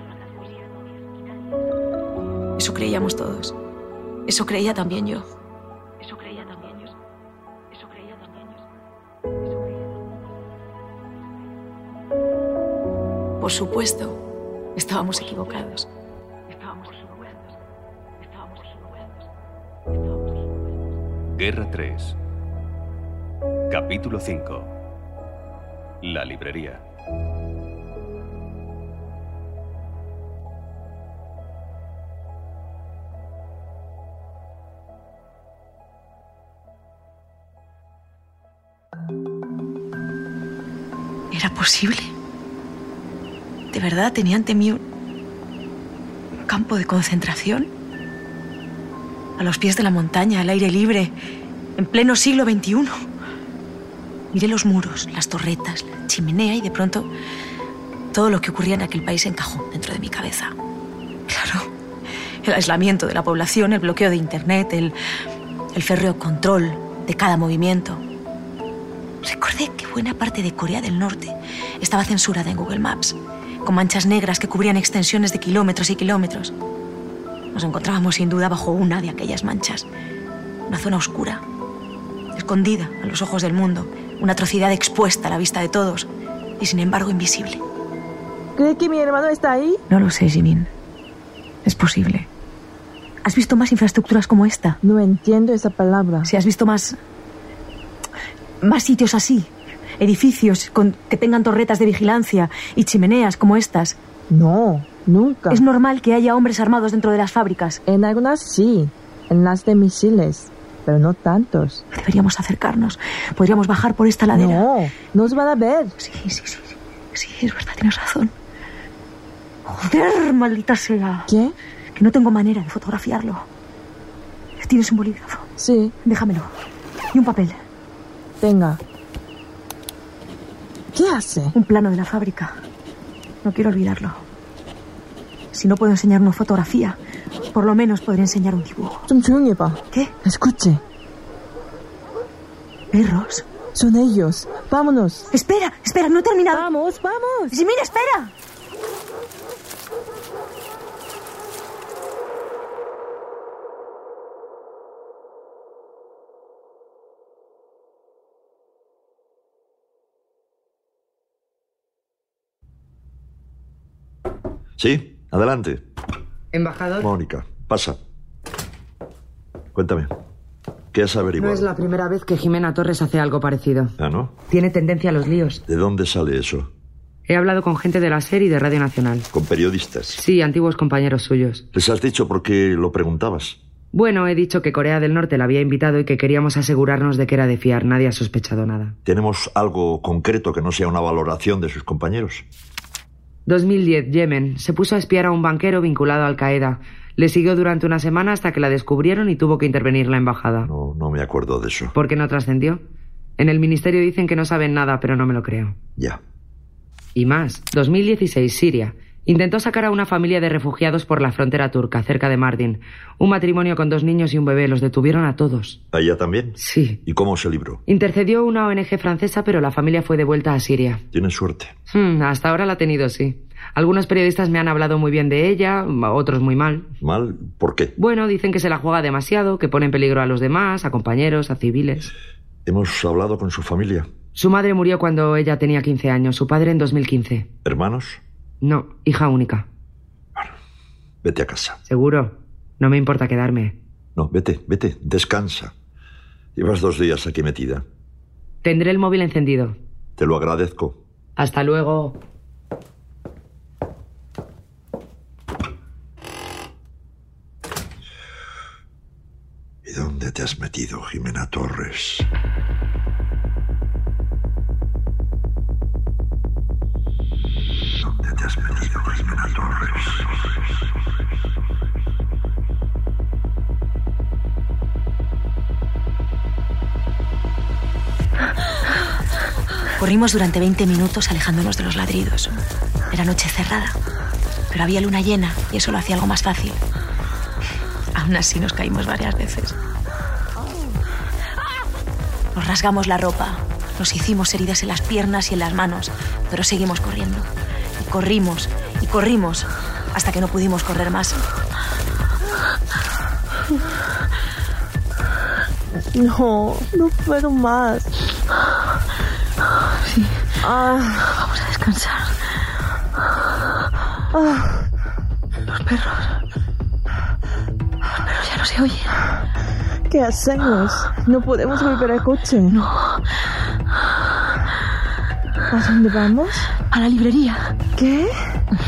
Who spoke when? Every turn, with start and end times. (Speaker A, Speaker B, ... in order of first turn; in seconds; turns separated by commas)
Speaker A: 2.6-3.6, Speaker A: 4.3-5.3, Speaker A: 6.3-6.8, Speaker A: 13.4-14.2, Speaker A: 14.8-15.9, Speaker B: 21.3-22.2, Speaker B: 23.7-24.7, Speaker B: 26.0-26.8, Speaker A: 41.3-42.1, Speaker A: 43.7-44.8, Speaker A: 46.5-47.7, Speaker A: 49.4-51.1, Speaker A: 51.8-52.9, Speaker A: 54.3-57.1, Speaker A: 58.1-60.5, Speaker A: 61.3-61.7, Speaker A: 62.4-64.9, Speaker A: 65.7-68.0, Speaker A: 69.2-76.5, Speaker A: 77.5-79.9, Speaker A: 80.7-81.4, Speaker A: 82.3-87.6, Speaker C: 88.5-89.8, Speaker A: 89.9-90.7, Speaker A: 91.7-92.3, Speaker A: 93.2-94.8, Speaker C: 94.8-96.3, Speaker A: 96.2-97.0, Speaker A: 98.6-104.0, Speaker C: 104.3-105.6, Speaker A: 105.5-107.8, Speaker C: 107.9-111.8, Speaker A: 111.9-114.7, Speaker C: 114.3-116.0, Speaker A: 116.0-118.3, Speaker A: 119.7-121.3, Speaker C: 121.3-121.5, Speaker A: 122.0-123.5, Speaker A: 124.6-125.5, Speaker C: 125.6-126.0, Speaker A: 126.0-126.5, Speaker A: 127.1-127.6, Speaker C: 128.4-128.8, Speaker C: 130.9-131.6, Speaker A: 131.5-132.6, Speaker A: 133.4-134.2, Speaker A: 135.5-137.0, Speaker A: 137.5-139.1, Speaker C: 139.1-140.8, Speaker A: 142.9-143.4, Speaker C: 143.7-145.3, Speaker A: 145.3-146.7, Speaker C: 146.5-147.6, Speaker A: 147.5-148.3, Speaker D: 164.8-165.8, Speaker E: 166.5-167.1, Speaker D: 167.0-168.0, Speaker D: 169.7-170.1, Speaker D: 170.9-171.7, Speaker E: 171.4-173.9, Speaker D: 174.0-174.3, Speaker E: 174.5-175.6, Speaker D: 175.7-176.7, Speaker E: 177.3-179.3, Speaker D: 179.3-180.2, Speaker E: 180.1-181.7, Speaker D: 181.7-183.6, Speaker E: 183.9-188.9, Speaker D: 189.1-192.4, Speaker E: 193.5-200.7, Speaker D: 200.7-201.9, Speaker E: 201.9-202.8, Speaker E: 203.4-205.8, Speaker E: 207.2-215.8, Speaker D: 215.9-217.8, Speaker E: 216.6-217.0, Speaker E: 217.9-221.0, Speaker D: 221.1-221.7, Speaker E: 221.9-226.9, Speaker D: 227.0-227.9, Speaker E: 228.0-232.1, Speaker D: 232.7-234.1, Speaker E: 234.3-237.5, Speaker D: 237.6-238.2, Speaker E: 238.6-239.7, Speaker D: 241.2-241.8, Speaker E: 241.9-243.8, Speaker D: 244.2-245.7, Speaker D: 246.6-247.8, Speaker E: 248.6-249.8, Speaker D: 250.2-251.0, Speaker E: 251.4-252.2, Speaker D: 259.8-262.3, Speaker D: 268.0-270.3, Speaker A: 280.0-282.6, Speaker A: 283.1-284.0, Speaker A: 284.7-286.8, Speaker A: 288.1-289.8, Speaker A: 292.5-301.4, Speaker C: 306.1-308.1, Speaker C: 310.6-311.3, Speaker A: 311.6-312.1, Speaker C: 314.3-314.9, Speaker A: 318.5-319.1, Speaker C: 320.1-322.8, Speaker C: 325.7-326.7, Speaker A: 326.9-327.6, Speaker C: 328.0-328.6